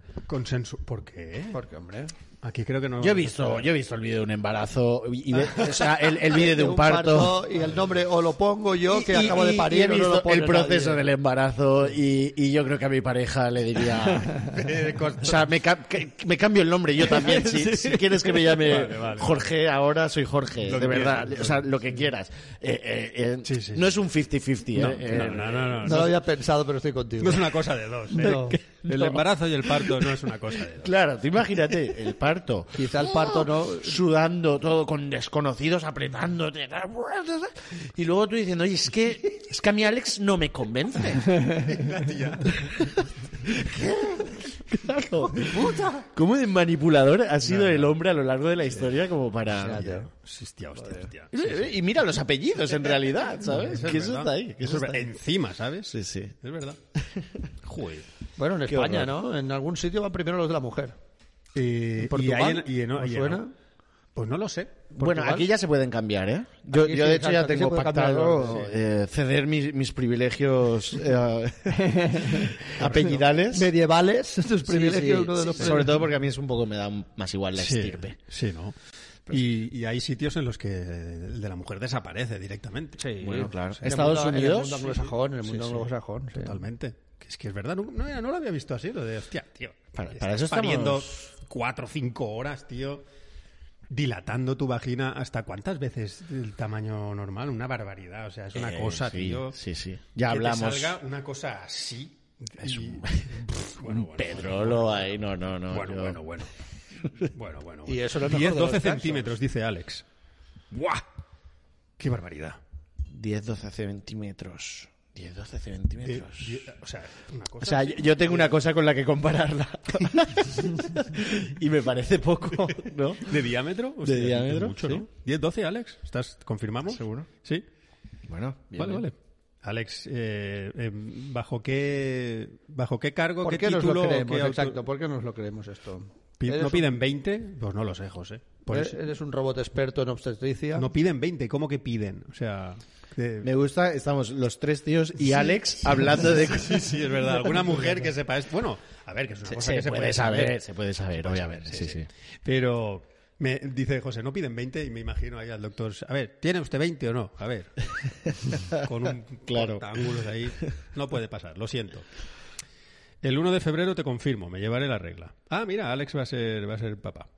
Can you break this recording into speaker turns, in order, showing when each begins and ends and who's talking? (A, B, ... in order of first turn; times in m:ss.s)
0:00.3-0:01.6 A
0:01.5-0:02.1 B
0:02.4-0:03.6 A
0:03.0-0:07.4 C
0:06.2-0:11.0 B
0:08.8-0:14.6 C
0:14.5-0:15.4 A
0:15.2-0:26.0 C
0:17.3-0:18.0 B
0:18.4-0:19.5 A
0:20.6-0:21.7 A
0:23.4-0:23.9 A
0:24.8-0:26.2 A
0:25.8-0:27.5 B
0:27.2-0:30.9 A
0:28.1-0:28.6 B
0:28.2-0:30.1 C
0:30.7-0:41.4 C
0:32.7-0:34.0 B
0:41.5-0:42.9 A
0:42.6-0:49.8 C
0:45.3-0:46.0 B
0:47.4-0:47.9 A
0:49.5-0:50.1 B
0:49.6-0:51.6 A
0:50.8-0:51.1 B
0:51.3-0:55.1 C
0:53.4-0:56.8 A
0:55.9-0:56.3 C
0:56.9-0:57.5 C
0:57.6-0:58.0 A
0:58.4-1:01.0 B
0:58.7-0:59.1 C
1:01.5-1:03.4 A
1:02.0-1:03.5 B
1:04.2-1:04.8 A
1:04.9-1:05.5 B
1:05.0-1:13.7 C
1:06.7-1:08.7 B
1:11.7-1:15.9 B
1:12.8-1:13.2 A
1:14.6-1:18.2 C
1:17.6-1:18.8 A
1:19.3-1:24.0 A
1:23.2-1:24.9 C
1:23.8-1:26.6 B
1:24.8-1:33.0 A
1:29.9-1:31.2 C
1:33.9-1:39.6 A
1:38.5-1:41.0 C
1:40.2-1:45.1 A
1:42.6-1:46.2 C
1:45.7-1:46.5 A
1:47.1-1:50.0 A
1:47.8-1:49.3 B
1:50.7-1:51.0 A
1:52.0-1:52.6 A
1:53.1-1:56.6 C
1:56.0-1:58.5 A
1:57.6-2:03.4 C
2:03.2-2:07.6 A
2:04.0-2:05.0 C
2:06.9-2:07.3 C
2:08.2-2:09.0 C
2:08.8-2:14.8 A
2:13.4-2:16.9 B
2:16.4-2:19.0 A
2:18.7-2:20.9 B
2:20.8-2:23.5 A
2:23.4-2:26.9 C
2:25.3-2:30.6 A
2:29.5-2:32.1 C
2:31.1-2:37.9 A
2:38.5-2:38.9 C
2:38.7-2:42.1 A
2:39.5-2:40.1 C
2:43.2-2:47.3 A